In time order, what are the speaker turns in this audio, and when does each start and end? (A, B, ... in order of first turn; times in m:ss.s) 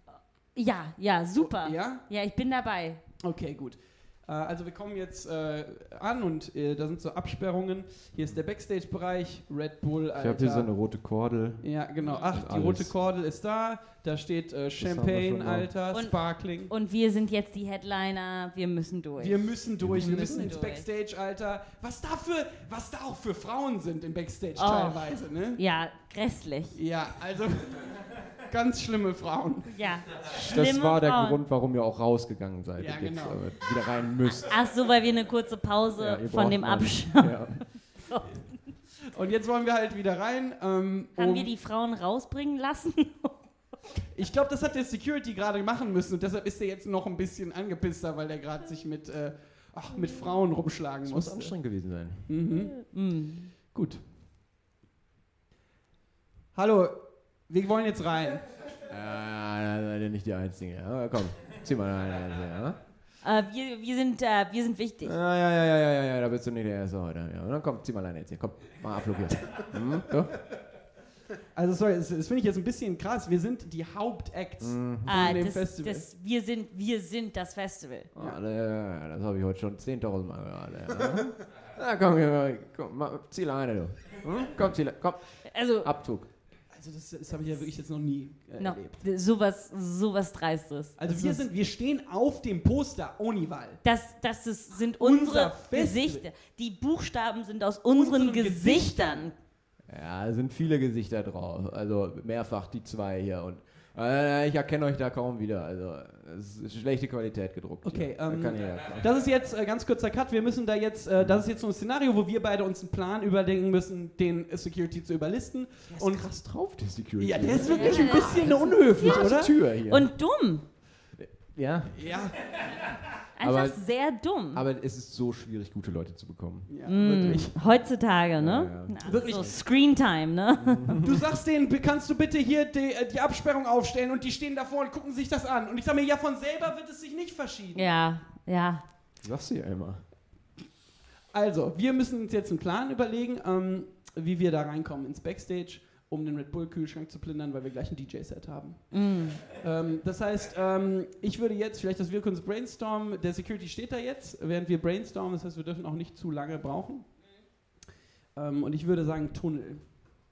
0:00.6-0:03.0 A
0:01.4-0:02.0 B
0:03.2-0:10.7 B
0:10.2-0:11.7 C
0:11.6-0:16.7 B
0:12.3-0:12.9 C
0:14.8-0:15.7 C
0:15.9-0:20.9 A
0:19.2-0:25.6 B
0:19.8-0:20.4 C
0:24.6-0:26.8 A
0:26.8-0:29.8 B
0:29.7-0:31.4 A
0:30.4-0:34.6 C
0:32.8-0:33.5 B
0:34.3-0:38.6 A
0:36.0-0:37.8 C
0:39.1-0:41.5 B
0:41.2-0:43.5 A
0:44.1-0:53.0 B
0:51.0-0:52.3 C
0:52.8-0:53.5 A
0:53.7-0:54.0 B
0:56.6-0:58.5 B
0:58.9-1:02.8 C
1:03.2-1:05.2 A
1:05.0-1:10.4 C
1:11.6-1:16.1 B
1:14.6-1:15.2 C
1:15.1-1:18.1 A
1:18.2-1:26.3 C
1:25.5-1:25.9 A
1:26.7-1:29.0 B
1:28.6-1:31.4 A
1:31.0-1:33.8 B
1:33.8-1:39.4 A
1:35.0-1:36.2 B
1:38.0-1:39.3 B
1:39.9-1:49.1 C
1:47.8-1:56.4 B
1:51.2-1:51.4 C
1:55.9-2:00.1 C
1:57.2-1:59.6 B
1:57.6-2:00.6 A
2:01.2-2:02.6 C
2:01.9-2:02.5 B
2:03.4-2:04.6 A
2:03.4-2:03.8 C
2:04.5-2:07.6 C
2:06.7-2:07.5 B
2:06.8-2:11.0 A
2:08.4-2:09.6 C
2:09.0-2:09.6 B
2:10.6-2:11.2 C
2:11.0-2:17.9 B
2:17.8-2:18.8 A
2:19.2-2:20.0 C
2:21.3-2:37.1 B
2:28.9-2:29.4 A
2:38.4-2:40.0 B